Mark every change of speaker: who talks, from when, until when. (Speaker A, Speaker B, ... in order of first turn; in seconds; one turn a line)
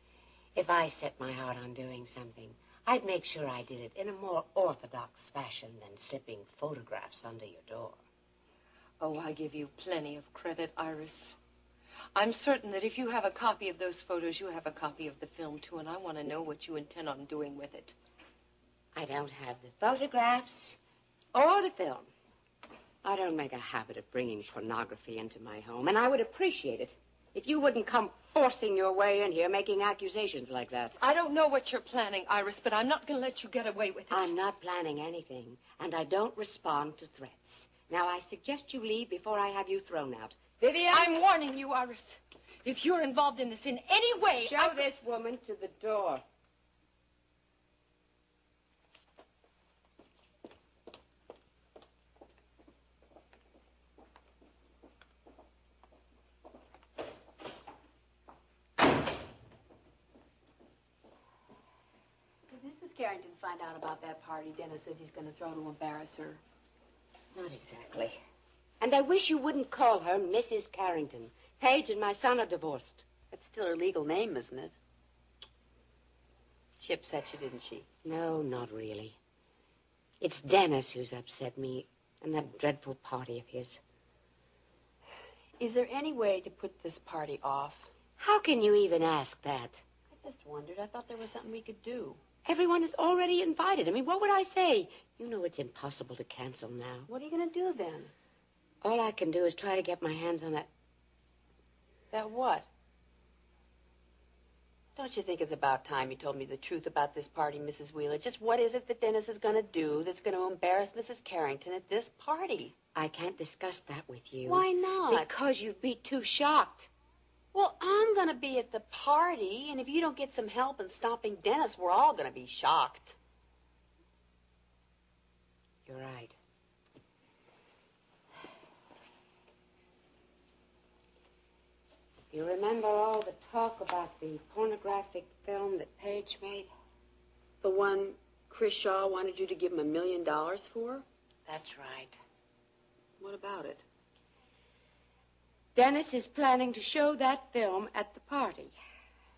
Speaker A: 0.6-8.0
Speaker B: 9.0-11.3
Speaker B: 12.1-17.9
Speaker A: 18.9-20.8
Speaker A: 21.3-22.1
Speaker A: 23.0-31.0
Speaker B: 31.0-34.3
Speaker A: 34.1-41.1
Speaker B: 40.9-44.9
Speaker A: 44.3-46.2
Speaker C: 62.5-66.4
Speaker A: 67.3-68.2
Speaker A: 68.8-73.0
Speaker C: 73.3-74.7
Speaker C: 76.8-77.8
Speaker A: 78.0-79.2
Speaker A: 80.2-83.8
Speaker C: 85.6-87.9
Speaker A: 88.2-89.8
Speaker C: 90.1-92.2
Speaker A: 92.4-97.1
Speaker C: 97.1-98.1
Speaker A: 98.8-100.7
Speaker C: 102.1-102.7
Speaker C: 105.0-112.7
Speaker A: 112.9-116.9
Speaker C: 114.5-115.4
Speaker C: 117.5-123.2
Speaker A: 125.8-126.3
Speaker A: 132.3-136.7
Speaker C: 137.6-141.0
Speaker A: 141.4-142.2
Speaker C: 143.2-143.8
Speaker A: 145.7-148.7